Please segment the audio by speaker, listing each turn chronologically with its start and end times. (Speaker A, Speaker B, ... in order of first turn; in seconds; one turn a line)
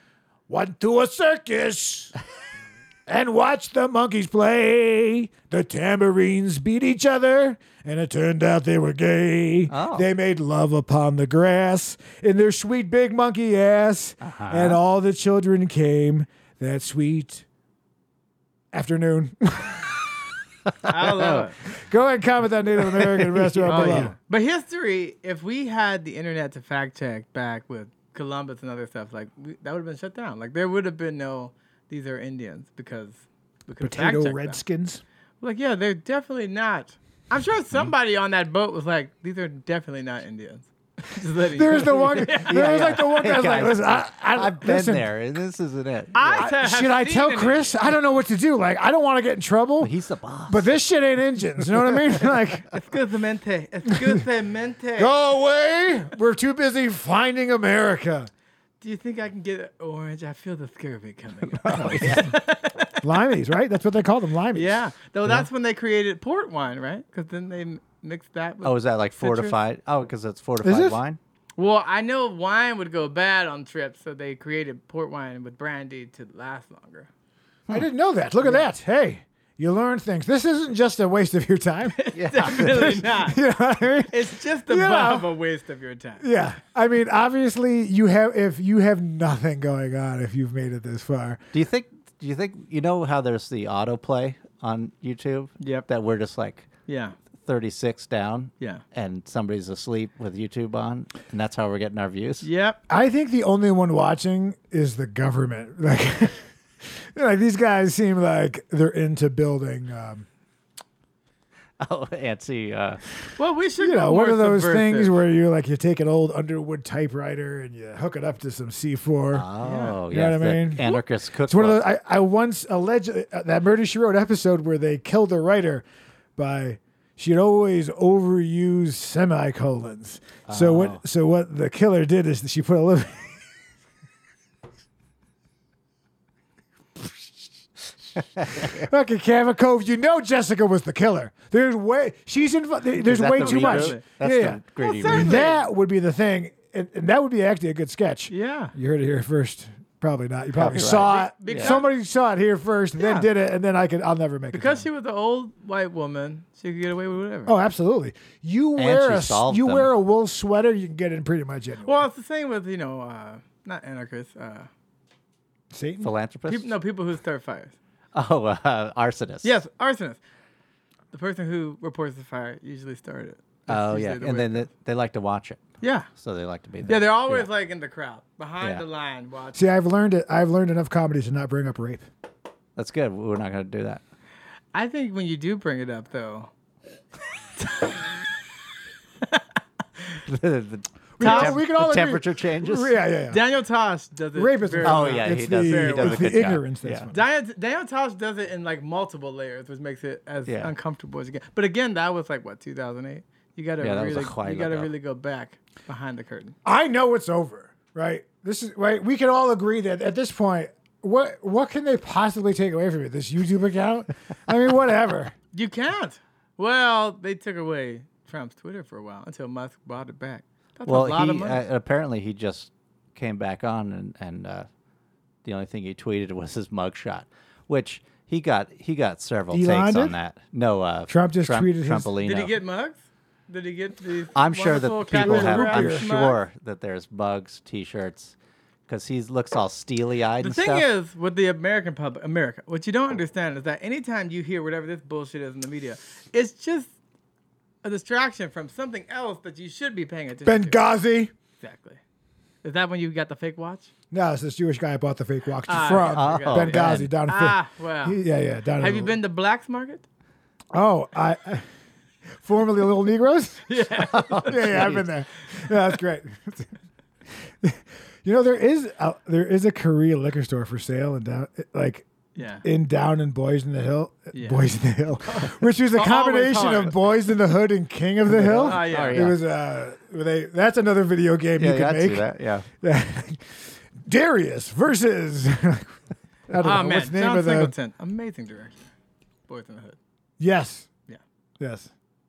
Speaker A: 0.5-2.1
Speaker A: 3.1-17.4
Speaker B: 9.7-10.1
Speaker B: 14.2-14.8
Speaker A: 18.7-19.8
Speaker B: 20.7-21.5
Speaker C: 20.9-21.6
Speaker A: 21.7-24.1
Speaker B: 22.8-24.1
Speaker C: 23.7-34.6
Speaker A: 33.8-35.0
Speaker C: 35.4-43.1
Speaker A: 41.5-45.1
Speaker B: 42.4-46.5
Speaker C: 46.1-48.0
Speaker A: 46.4-49.9
Speaker B: 49.8-50.7
Speaker A: 50.5-52.7
Speaker C: 52.7-55.1
Speaker A: 55.0-58.3
Speaker C: 58.8-63.0
Speaker A: 61.7-62.3
Speaker B: 61.7-62.4
Speaker A: 63.0-65.5
Speaker C: 64.5-69.6
Speaker B: 68.6-71.2
Speaker A: 70.6-71.0
Speaker C: 71.6-77.1
Speaker A: 77.7-82.0
Speaker C: 82.0-83.4
Speaker B: 82.1-83.1
Speaker A: 82.6-85.3
Speaker C: 84.1-86.2
Speaker A: 86.2-91.4
Speaker B: 91.5-96.7
Speaker C: 95.6-95.9
Speaker C: 96.9-97.2
Speaker B: 97.4-102.5
Speaker C: 102.4-102.8
Speaker A: 102.9-110.3
Speaker B: 111.8-113.0
Speaker C: 113.4-115.2
Speaker A: 113.8-119.5
Speaker B: 119.3-121.8
Speaker C: 119.6-120.0
Speaker A: 120.1-120.9
Speaker A: 121.5-125.8
Speaker A: 126.4-133.4
Speaker B: 130.5-131.0
Speaker B: 138.4-138.8
Speaker A: 138.5-154.8
Speaker B: 143.0-145.5
Speaker C: 143.4-144.0
Speaker C: 144.8-145.6
Speaker C: 148.3-148.7
Speaker B: 150.5-151.8
Speaker C: 150.8-151.9
Speaker C: 153.0-153.3
Speaker C: 154.5-157.5
Speaker A: 157.5-162.0
Speaker B: 158.8-159.9
Speaker C: 161.9-164.7
Speaker A: 165.7-166.1
Speaker B: 166.0-166.7
Speaker C: 166.5-167.8
Speaker B: 168.1-169.6
Speaker C: 169.4-170.2
Speaker C: 171.1-174.7
Speaker B: 173.7-177.5
Speaker C: 175.8-176.1
Speaker C: 176.9-179.6
Speaker A: 179.6-182.1
Speaker B: 182.8-184.0
Speaker C: 184.7-186.5
Speaker C: 187.6-188.0
Speaker B: 190.3-192.9
Speaker A: 191.2-193.4
Speaker C: 191.2-191.6
Speaker C: 193.3-196.3
Speaker A: 194.4-197.2
Speaker B: 194.8-197.1
Speaker C: 197.1-206.6
Speaker B: 200.5-200.7
Speaker B: 203.8-204.9
Speaker A: 206.7-215.3
Speaker C: 215.5-221.6
Speaker B: 220.9-224.7
Speaker B: 225.4-232.6
Speaker A: 229.5-230.2
Speaker A: 231.1-232.1
Speaker C: 232.2-236.4
Speaker B: 234.3-238.3
Speaker A: 235.2-236.1
Speaker B: 238.9-240.9
Speaker C: 240.4-246.9
Speaker C: 247.8-250.8
Speaker A: 250.4-251.3
Speaker C: 251.6-252.0
Speaker C: 252.6-253.9
Speaker A: 254.1-259.1
Speaker C: 255.7-258.2
Speaker B: 255.9-257.1
Speaker C: 258.8-260.1
Speaker A: 260.7-261.7
Speaker A: 262.4-263.8
Speaker C: 263.7-265.0
Speaker B: 264.1-265.0
Speaker A: 264.4-266.7
Speaker A: 267.6-272.1
Speaker C: 272.4-272.6
Speaker A: 272.6-282.3
Speaker C: 274.4-274.7
Speaker C: 275.3-277.2
Speaker B: 278.3-279.4
Speaker C: 278.4-279.4
Speaker B: 281.6-282.7
Speaker A: 282.8-286.0
Speaker A: 286.5-287.7
Speaker C: 286.6-288.8
Speaker C: 289.5-290.0
Speaker A: 290.4-290.9
Speaker A: 291.6-291.9